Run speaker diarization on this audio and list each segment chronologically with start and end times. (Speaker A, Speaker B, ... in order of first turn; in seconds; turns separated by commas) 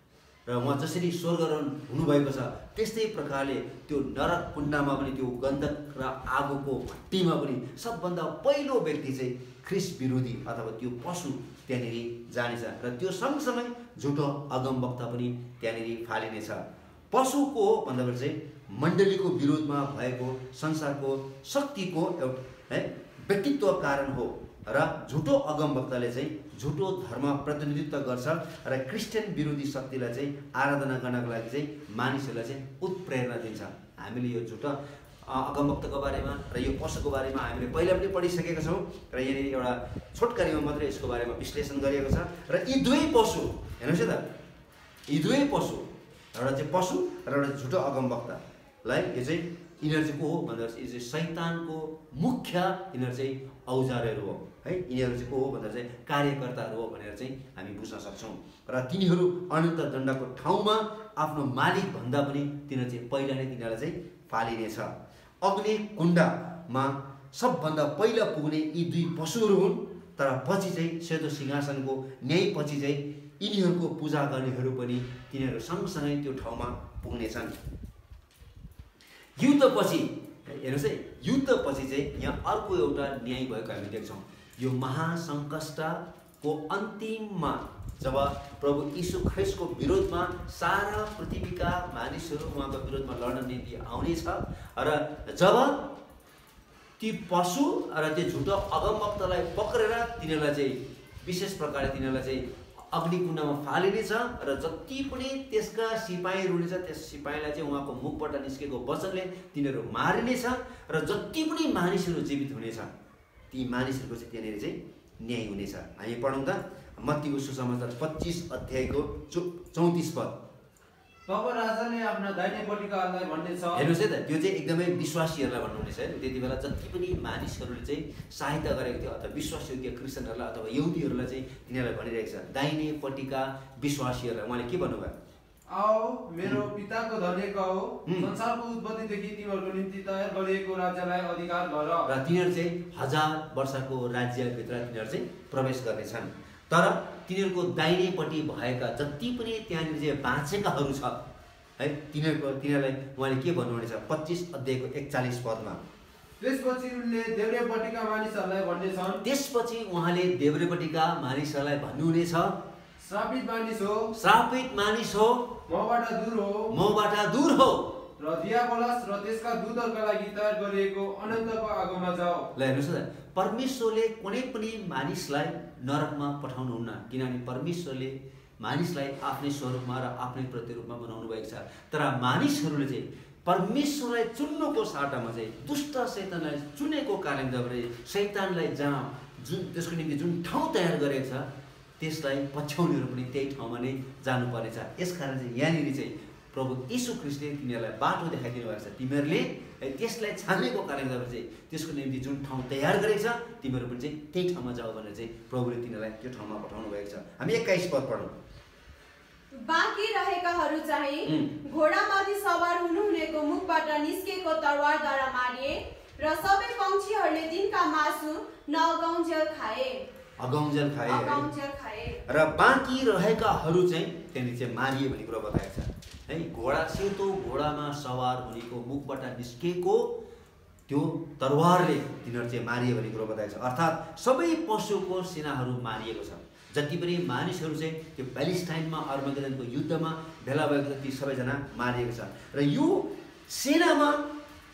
Speaker A: 0.5-44.3, Speaker A: 45.1-77.5, Speaker A: 79.4-95.8, Speaker A: 97.0-112.9, Speaker A: 113.5-120.4, Speaker B: 121.3-123.9, Speaker A: 123.7-135.2, Speaker B: 135.7-142.1, Speaker A: 138.1-138.3, Speaker A: 142.1-151.2, Speaker A: 151.8-155.8, Speaker B: 156.4-159.2, Speaker A: 159.2-162.5, Speaker B: 163.0-164.1, Speaker A: 164.2-165.6, Speaker B: 165.7-166.7, Speaker A: 166.7-167.9, Speaker B: 168.2-172.5, Speaker A: 172.6-191.5, Speaker A: 192.0-208.3, Speaker C: 209.5-220.0, Speaker A: 211.3-211.5, Speaker A: 220.4-221.4, Speaker C: 221.1-222.2, Speaker A: 222.3-230.2, Speaker A: 230.9-244.3